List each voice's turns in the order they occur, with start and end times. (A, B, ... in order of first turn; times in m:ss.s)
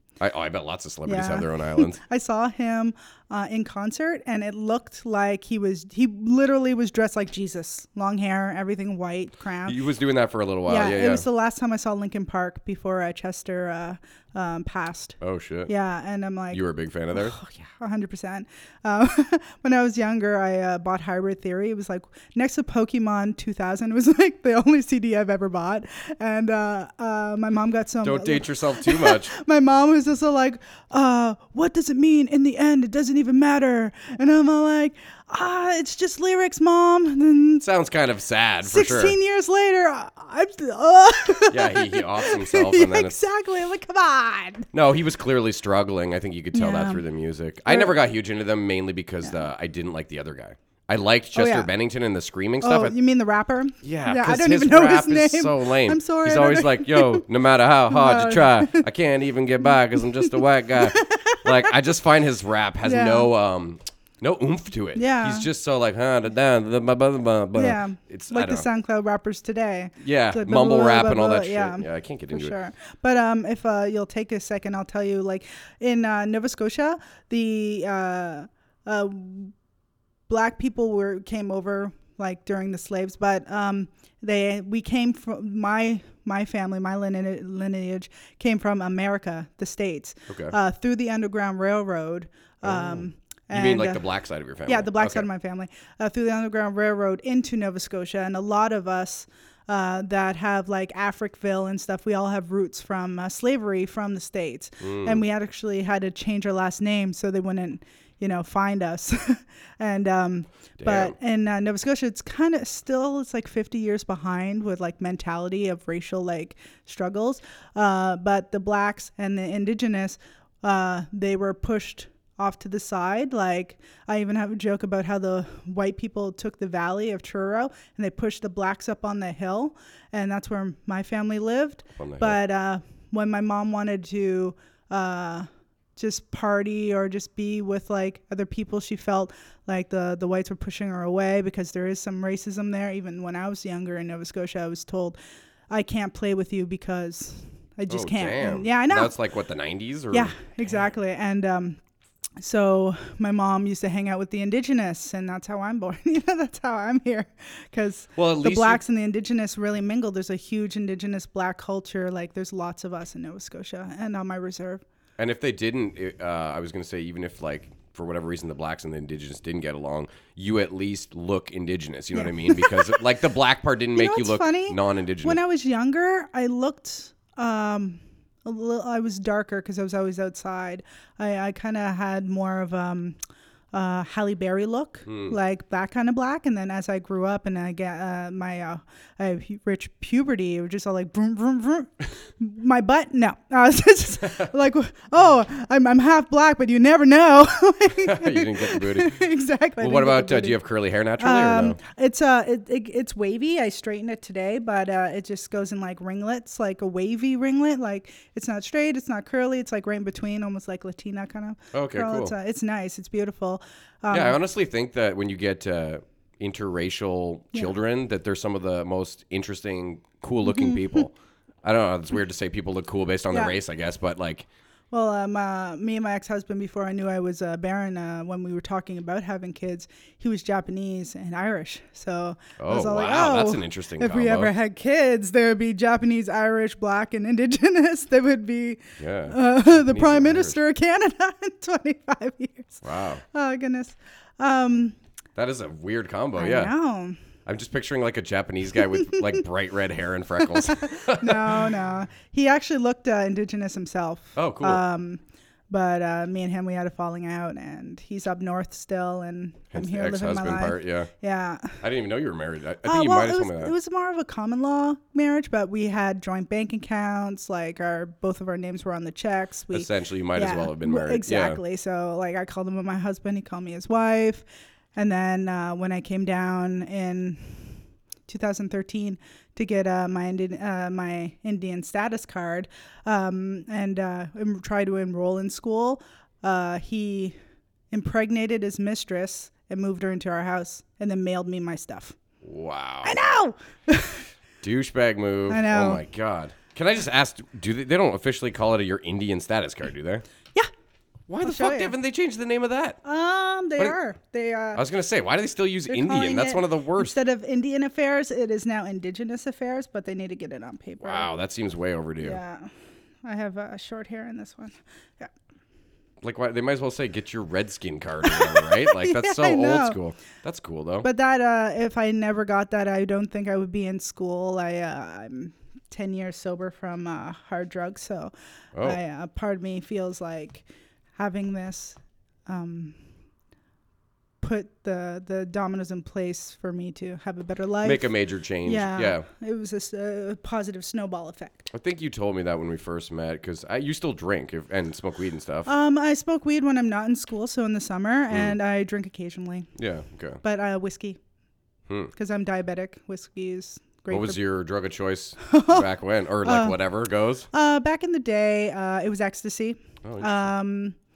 0:00.2-0:02.0 A
0:01.1-0:09.8 B
0:09.6-0:11.2 A
0:10.7-0:16.6 B
0:15.2-0:15.7 A
0:16.5-0:17.4 A
0:17.1-0:37.6 B
0:28.0-0:29.3 A
0:37.6-0:39.2 A
0:38.6-0:44.7 B
0:41.5-0:43.2 A
0:44.7-0:53.0 A
0:46.5-0:47.0 B
0:47.7-0:47.9 B
0:51.4-0:51.7 B
0:52.6-0:57.3 B
0:53.8-1:08.7 A
0:57.9-0:58.9 B
1:00.1-1:01.8 B
1:02.8-1:03.3 B
1:05.0-1:05.5 B
1:07.6-1:19.5 B
1:10.0-1:12.6 A
1:20.3-1:34.0 B
1:30.3-1:30.5 A
1:32.6-1:35.3 A
1:34.7-2:25.2 B
1:44.8-1:45.2 A
1:50.8-1:51.2 A
2:12.0-2:12.4 A
2:25.7-2:29.1 B
2:27.9-2:30.4 A
2:30.1-2:31.8 B
2:32.4-2:44.8 B
2:38.2-2:38.8 A
2:45.2-2:55.4 A
2:52.1-2:53.0 B
2:54.0-3:03.2 B
3:03.7-3:20.6 B
3:05.1-3:05.4 A
3:18.0-3:19.2 A
3:19.8-3:21.8 A
3:21.2-3:34.4 B
3:31.7-3:32.4 A
3:34.1-3:44.5 A
3:40.5-3:41.0 B
3:44.9-4:05.0 B
3:52.6-3:54.5 A
3:59.0-4:00.6 A
4:02.8-4:03.2 A
4:05.4-4:06.7 A
4:06.4-4:07.2 B
4:07.5-4:11.8 A
4:10.4-4:21.8 B
4:14.4-4:14.8 A
4:19.7-4:21.1 A
4:21.8-4:23.7 A
4:22.8-4:47.4 B
4:29.7-4:31.6 A
4:47.9-4:52.2 B
4:52.4-4:53.2 A
4:53.0-4:54.3 B
4:54.6-5:00.2 A
4:55.5-4:56.0 B
5:01.3-5:03.0 A
5:01.4-5:01.9 B
5:03.0-5:04.8 B
5:04.8-5:07.2 A
5:05.9-5:11.3 B
5:11.0-5:12.4 A
5:12.2-5:12.7 B
5:13.2-5:15.3 B
5:16.2-5:21.1 A
5:18.2-5:20.0 B
5:21.0-5:33.0 B
5:28.7-5:29.0 A
5:34.4-5:38.1 B
5:37.8-5:39.3 A
5:38.6-5:41.7 B
5:41.7-5:45.7 A
5:45.7-5:49.7 B
5:48.3-5:48.6 A
5:49.8-5:50.4 A
5:50.4-5:51.2 B
5:51.9-5:52.1 A
5:52.2-5:54.4 B
5:54.1-5:57.5 A
5:55.4-5:55.9 B
5:56.4-5:56.8 B
5:57.5-6:01.0 B
6:00.0-6:00.5 A